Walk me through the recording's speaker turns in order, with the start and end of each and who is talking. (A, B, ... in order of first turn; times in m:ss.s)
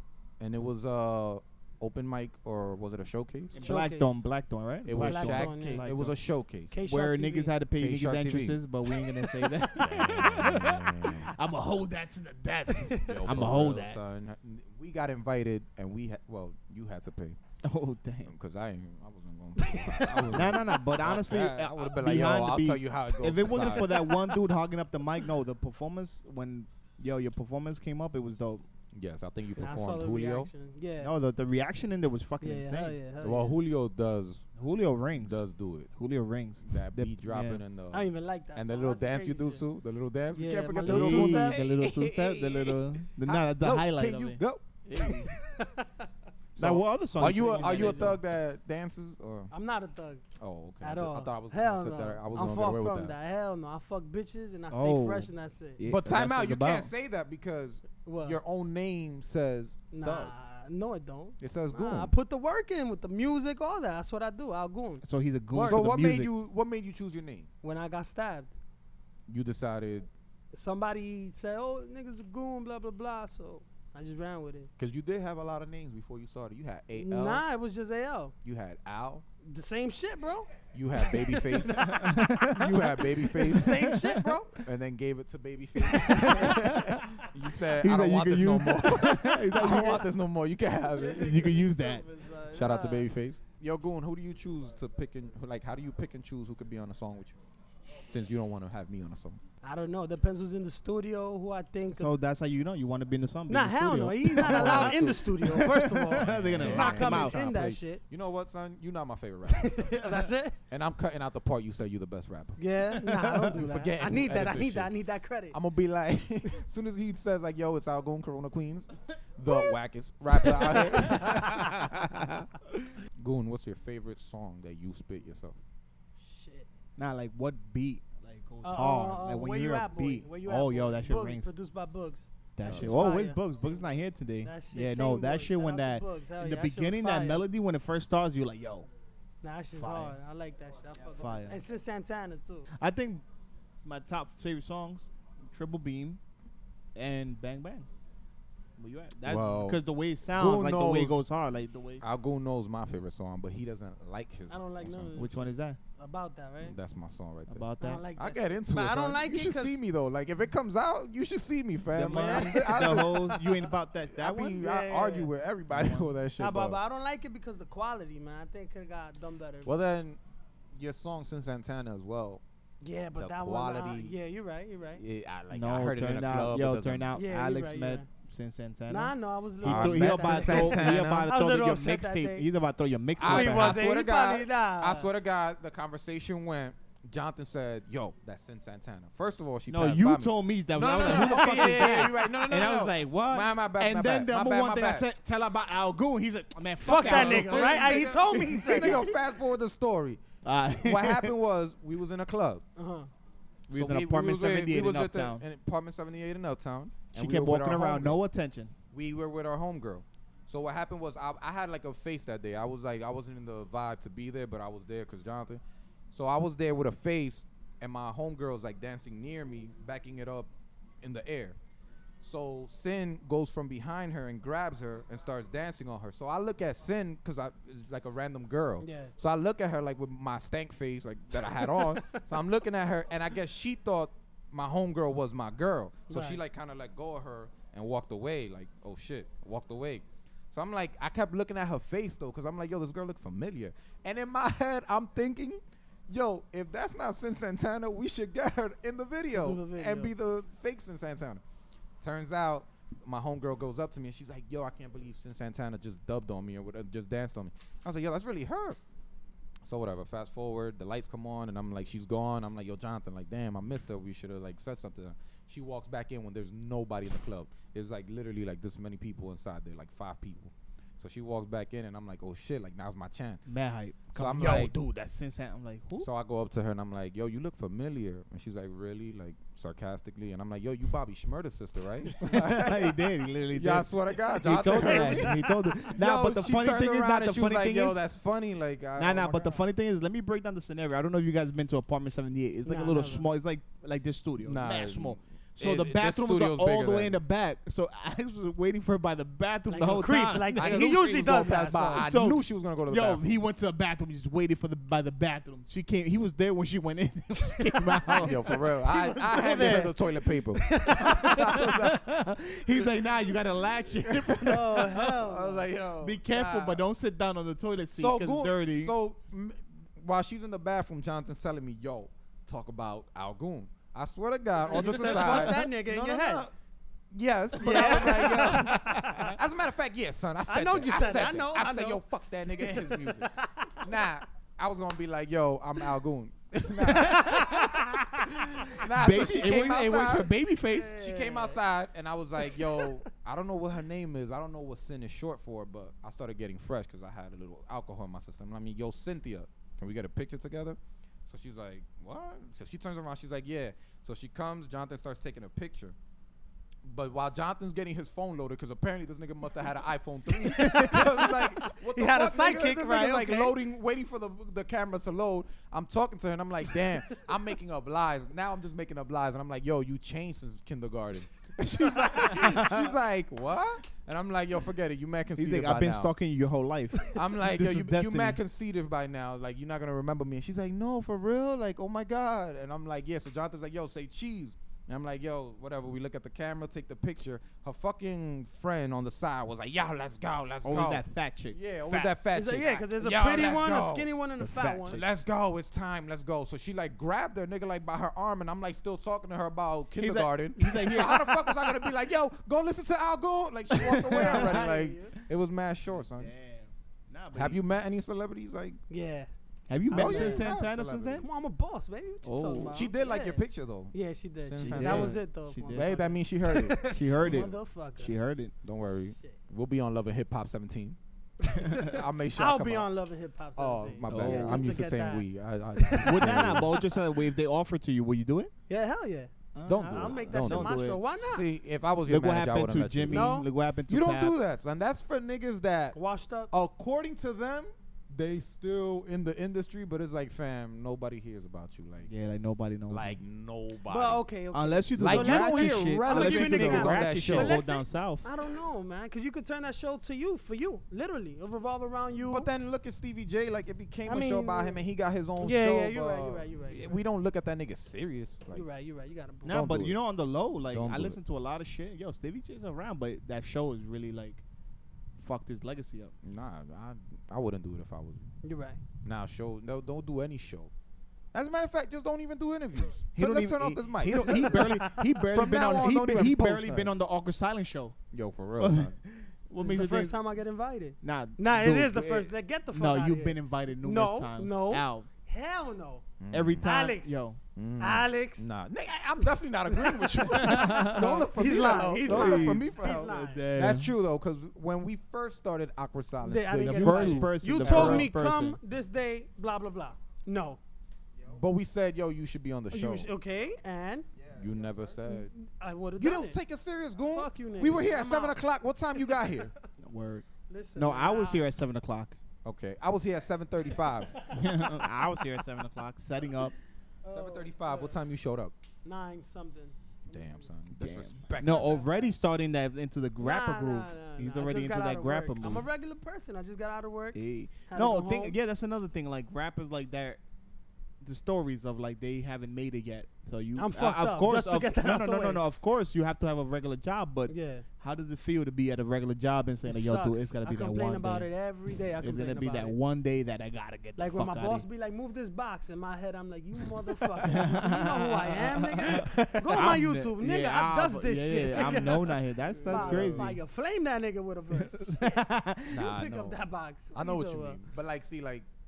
0:00.4-0:03.6 A
0:03.5-0:06.1 B
0:03.6-0:04.2 C
0:04.8-0:06.7 A
0:04.9-0:05.8 C
0:06.7-0:07.6 C
0:06.8-0:14.0 B
0:07.7-0:08.6 A
0:09.8-0:11.3 A
0:12.7-0:13.3 C
0:13.0-0:17.4 A
0:17.6-0:18.3 B
0:18.3-0:23.9 A
0:19.6-0:20.4 C
0:20.3-0:28.6 B
0:23.8-0:24.4 C
0:28.9-0:30.5 A
0:29.6-0:31.1 C
0:31.0-0:33.0 B
0:32.4-0:33.6 C
0:33.2-0:34.5 A
0:34.6-0:35.4 B
0:35.2-0:35.9 A
0:35.9-0:37.6 B
0:36.6-0:44.8 A
0:37.9-0:39.6 C
0:40.3-0:41.6 C
0:40.8-0:45.3 B
0:45.3-0:46.1 C
0:46.6-0:49.5 A
0:46.6-0:48.2 B
0:47.2-0:48.2 C
0:49.5-0:50.2 C
0:50.4-0:53.1 A
0:50.8-0:55.8 C
0:54.7-0:56.9 B
0:55.9-1:00.3 A
0:58.0-0:58.4 C
0:59.9-1:05.0 C
1:01.4-1:02.1 A
1:05.0-1:06.3 B
1:05.5-1:07.5 A
1:07.6-1:08.5 C
1:09.3-1:10.1 A
1:10.5-1:14.7 C
1:14.8-1:17.4 A
1:16.9-1:18.3 C
1:18.4-1:19.2 A
1:19.4-1:22.0 C
1:20.7-1:23.9 A
1:21.8-1:24.3 B
1:23.4-1:24.6 C
1:24.6-1:31.4 A
1:25.9-1:26.5 C
1:26.1-1:27.0 B
1:27.7-1:30.1 B
1:30.9-1:33.1 C
1:31.1-1:32.0 B
1:32.5-1:37.4 A
1:38.0-1:39.4 A
1:39.6-1:42.1 C
1:41.9-1:47.4 B
1:43.5-1:48.0 C
1:44.4-1:45.6 A
1:46.2-1:50.1 A
1:49.5-1:50.6 C
1:50.7-1:52.6 A
1:52.6-1:55.6 C
1:53.0-1:53.5 B
1:53.5-1:54.9 A
1:55.5-2:01.9 A
2:00.4-2:01.6 C
2:01.4-2:02.9 B
2:03.2-2:05.6 A
2:06.2-2:06.7 C
2:07.0-2:11.5 B
2:08.6-2:13.4 C
2:12.6-2:18.9 B
2:12.6-2:13.0 A
2:14.4-2:17.4 C
2:19.4-2:22.7 C
2:19.8-2:20.2 B
2:21.1-2:21.6 B
2:22.7-2:23.2 B
2:23.8-2:26.2 B
2:26.9-2:27.9 B
2:28.8-2:32.0 B
2:29.2-2:31.2 A
2:32.0-2:35.2 A
2:34.5-2:35.5 C
2:35.2-2:35.8 B
2:36.0-2:36.8 C
2:36.6-2:43.4 A
2:37.5-2:38.0 B
2:37.8-2:39.8 C
2:41.9-2:44.6 B
2:42.1-2:43.1 C
2:44.2-2:46.8 A
2:44.5-2:45.3 C
2:45.7-2:46.1 B
2:46.4-2:49.7 C
2:49.6-2:50.2 A
2:50.7-2:52.4 A
2:52.8-2:55.0 C
2:53.2-2:54.1 A
2:55.0-2:57.1 A
2:55.5-3:03.8 B
2:57.1-2:58.0 C
2:58.9-3:02.5 C
2:59.6-3:01.3 A
3:03.2-3:15.1 A
3:03.2-3:05.1 C
3:09.7-3:19.2 B
3:16.8-3:19.0 C
3:16.9-3:20.2 A
3:20.4-3:21.3 B
3:20.8-3:22.6 A
3:22.8-3:23.1 C
3:23.7-3:25.4 B
3:23.7-3:28.2 A
3:27.1-3:28.7 B
3:28.9-3:40.5 A
3:41.0-3:41.6 A
3:42.2-4:11.4 A
3:48.8-3:49.1 C
3:51.3-3:52.2 C
3:56.1-3:56.4 C
4:09.3-4:10.1 C
4:12.0-4:18.8 A
4:19.6-4:33.4 A
4:33.4-4:36.1 B
4:34.1-4:34.7 A
4:36.0-4:43.0 A
4:42.2-4:48.0 B
4:43.5-4:49.6 A
4:44.6-4:45.5 C
4:49.0-5:08.5 B
4:52.6-4:53.2 C
4:54.4-4:57.2 A
4:59.7-5:02.1 C
5:00.5-5:03.3 A
5:07.6-5:10.0 C
5:08.2-5:11.9 A
5:09.4-5:09.8 B
5:10.5-5:11.6 C
5:11.0-5:15.0 B
5:14.1-5:16.8 A
5:14.4-5:15.7 C
5:16.0-5:18.9 B
5:17.9-5:26.5 A
5:24.6-5:26.4 C
5:24.7-5:25.6 B
5:27.1-5:33.3 A
5:27.6-5:29.0 C
5:27.7-5:29.3 B
5:30.5-5:33.9 C
5:33.8-5:37.6 A
5:36.8-5:38.2 B
5:37.0-5:37.8 C
5:38.6-5:40.3 A
5:38.9-5:41.0 B
5:40.7-5:41.6 C
5:41.0-5:55.9 A
5:42.5-5:42.9 C
5:56.8-6:16.1 A
6:00.6-6:01.1 B
6:00.6-6:03.6 C
6:12.3-6:12.8 B
6:15.4-6:18.4 B
6:17.1-6:34.1 A
6:30.6-6:32.1 B
6:32.3-6:35.0 C
6:34.4-6:35.0 B
6:34.9-6:46.3 A
6:40.0-6:41.6 B
6:43.8-6:44.6 B
6:44.0-6:45.1 C
6:45.9-6:47.6 B
6:47.3-6:48.8 A
6:48.9-6:49.3 C
6:49.7-6:51.2 B
6:49.9-6:50.5 C
6:49.9-6:51.3 A
6:51.2-6:53.4 C
6:52.2-6:52.8 B
6:52.7-6:55.2 A
6:53.9-6:58.1 C
6:54.6-6:56.0 B
6:55.7-6:57.4 A
6:56.8-6:58.5 B
6:58.6-7:01.0 A
7:01.4-7:07.0 C
7:01.8-7:02.9 A
7:03.6-7:06.7 A
7:04.1-7:04.8 B
7:06.0-7:08.5 B
7:08.7-7:09.3 C
7:09.5-7:11.0 B
7:09.6-7:13.4 A
7:09.9-7:11.4 C
7:12.1-7:14.4 B
7:13.1-7:13.5 C
7:13.9-7:16.0 A
7:15.9-7:16.5 C
7:16.5-7:22.1 A
7:22.1-7:23.2 B
7:22.9-7:24.2 A
7:23.9-7:32.5 C
7:24.5-7:28.2 B
7:25.0-7:27.6 A
7:32.3-7:38.6 A
7:34.0-7:34.8 C
7:35.4-7:37.0 C
7:38.5-7:39.6 C
7:39.4-7:44.4 B
7:39.5-7:40.0 A
7:40.7-7:41.2 A
7:45.2-7:46.1 B
7:46.2-7:48.3 A
7:48.4-7:48.8 C
7:49.0-7:50.7 A
7:51.3-7:56.9 A
7:53.1-7:58.0 B
7:54.2-7:55.0 C
7:58.1-7:58.9 A
7:58.6-8:00.1 B
7:59.6-8:06.0 C
8:01.0-8:05.1 B
8:06.2-8:06.7 A
8:06.3-8:07.4 B
8:06.6-8:07.2 C
8:07.6-8:18.1 A
8:07.8-8:08.5 C
8:09.3-8:13.4 C
8:10.4-8:11.2 B
8:12.0-8:13.9 B
8:16.2-8:20.6 C
8:16.6-8:18.6 B
8:21.3-8:23.1 A
8:22.7-8:24.1 C
8:24.3-8:25.3 A
8:25.0-8:26.4 C
8:26.0-8:29.5 A
8:27.1-8:28.4 C
8:29.0-8:29.4 C
8:29.8-8:32.2 B
8:30.5-8:31.5 C
8:32.4-8:34.2 A
8:34.3-8:36.5 B
8:34.5-8:34.8 C
8:37.0-8:38.0 C
8:37.1-8:38.5 A
8:38.8-8:40.4 C
8:40.1-8:41.9 A
8:40.7-8:45.7 B
8:41.4-8:41.8 C
8:43.2-8:48.4 C
8:47.1-8:50.2 B
8:51.0-9:01.3 B
8:53.6-8:55.4 C
8:57.3-8:57.6 C
8:59.6-9:02.8 C
9:02.0-9:04.6 B
9:04.0-9:15.2 C
9:07.2-9:13.4 B
9:12.6-9:13.3 A
9:14.5-9:15.9 B
9:15.7-9:16.4 A
9:15.8-9:17.6 C
9:16.9-9:18.4 A